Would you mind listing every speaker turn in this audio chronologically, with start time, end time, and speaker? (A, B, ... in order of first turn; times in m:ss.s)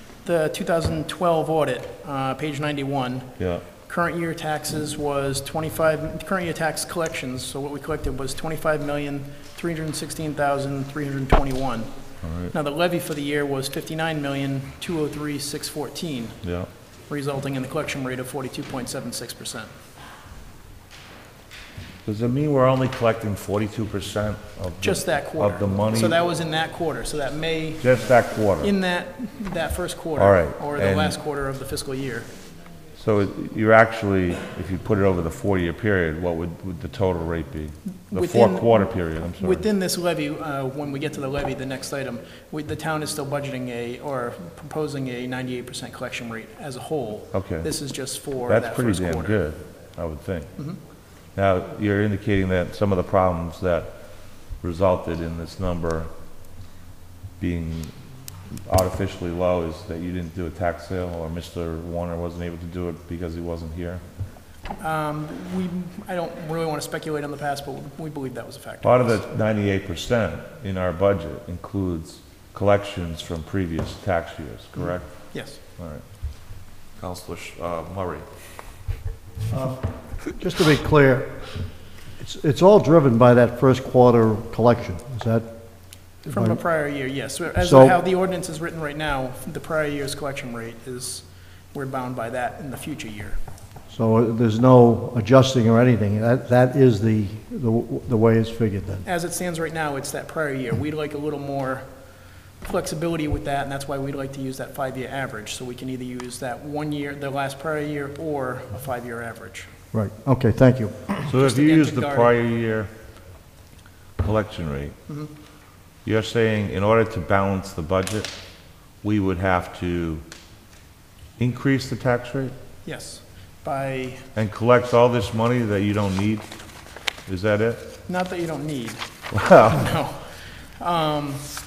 0:00.2-0:11.9 A
0:03.4-0:03.6 B
0:12.2-0:12.5 B
0:12.5-0:16.4 A
0:16.4-0:16.7 B
0:17.1-0:19.7 A
0:22.0-0:26.2 B
0:24.8-0:27.9 A
0:27.8-0:28.7 B
0:28.6-0:32.3 A
0:30.2-0:31.2 B
0:33.0-0:39.6 B
0:38.1-0:49.4 A
0:47.3-0:47.7 B
0:48.5-0:50.5 B
0:51.3-0:56.1 B
0:57.4-0:58.0 B
0:58.6-1:04.0 B
1:04.8-1:09.2 A
1:08.8-1:15.2 B
1:14.8-1:15.6 A
1:15.8-1:16.0 B
1:17.0-1:18.3 B
1:19.5-1:21.6 C
1:22.2-1:25.6 C
1:26.2-1:26.6 C
1:26.3-1:33.4 A
1:27.6-1:28.0 C
1:33.9-1:39.0 C
1:39.0-1:41.9 A
1:42.6-1:49.7 A
1:49.9-1:51.2 C
1:51.2-1:52.3 A
1:51.3-1:52.9 B
1:54.2-1:55.0 B
1:56.0-1:58.3 B
1:59.0-2:00.2 B
2:01.4-2:02.6 B
2:02.8-2:04.2 A
2:04.4-2:06.5 B
2:07.3-2:07.8 B
2:08.1-2:09.0 A
2:09.3-2:09.8 B
2:09.7-2:11.4 A